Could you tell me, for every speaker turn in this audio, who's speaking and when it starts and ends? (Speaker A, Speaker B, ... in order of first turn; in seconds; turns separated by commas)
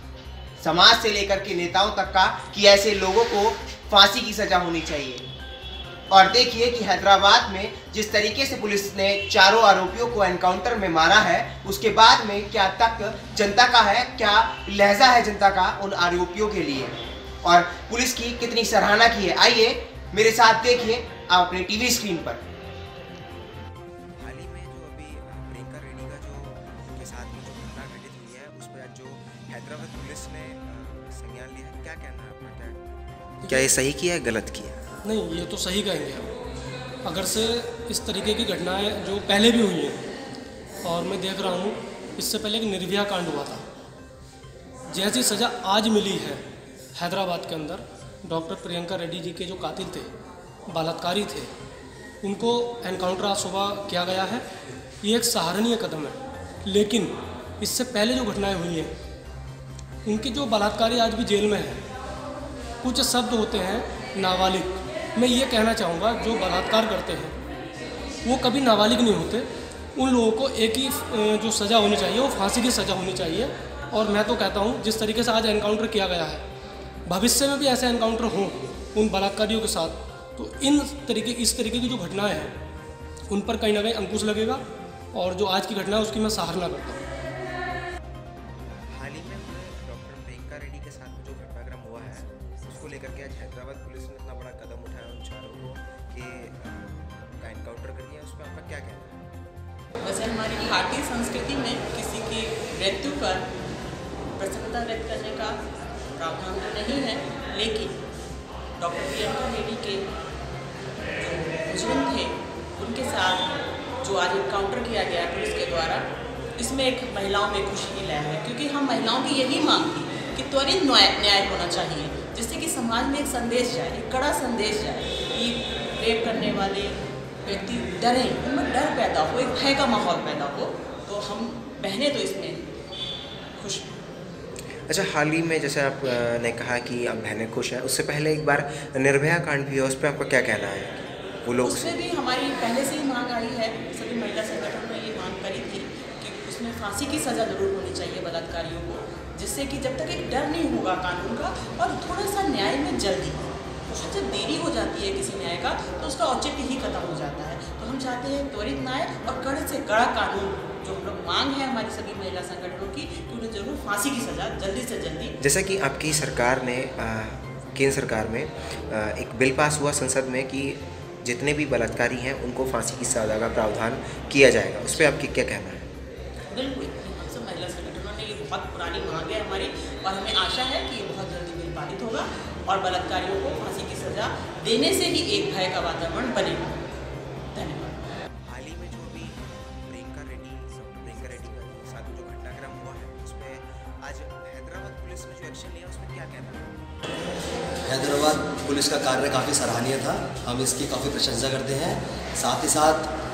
Speaker A: 0.6-5.2, Speaker A: 6.1-22.4, Speaker B: 24.2-32.8, Speaker C: 33.4-33.7, Speaker B: 33.5-34.8, Speaker C: 35.0-36.3, Speaker C: 37.0-40.0, Speaker C: 40.8-43.6, Speaker C: 44.9-46.4, Speaker C: 47.0-50.1, Speaker C: 50.7-51.5, Speaker C: 52.2-54.4, Speaker C: 55.0-58.9, Speaker C: 60.0-61.8, Speaker C: 62.8-67.3, Speaker C: 68.2-76.4, Speaker C: 77.0-82.5, Speaker C: 83.3-87.0, Speaker B: 88.7-99.2, Speaker D: 100.0-103.5, Speaker D: 104.4-105.6, Speaker D: 106.2-108.0, Speaker D: 108.8-110.0, Speaker D: 111.2-113.5, Speaker D: 114.0-132.7, Speaker D: 133.6-133.9, Speaker B: 134.9-142.0, Speaker D: 141.6-165.3, Speaker B: 165.4-175.9, Speaker D: 176.5-186.8, Speaker D: 187.5-188.0, Speaker B: 188.5-196.7, Speaker E: 197.8-203.1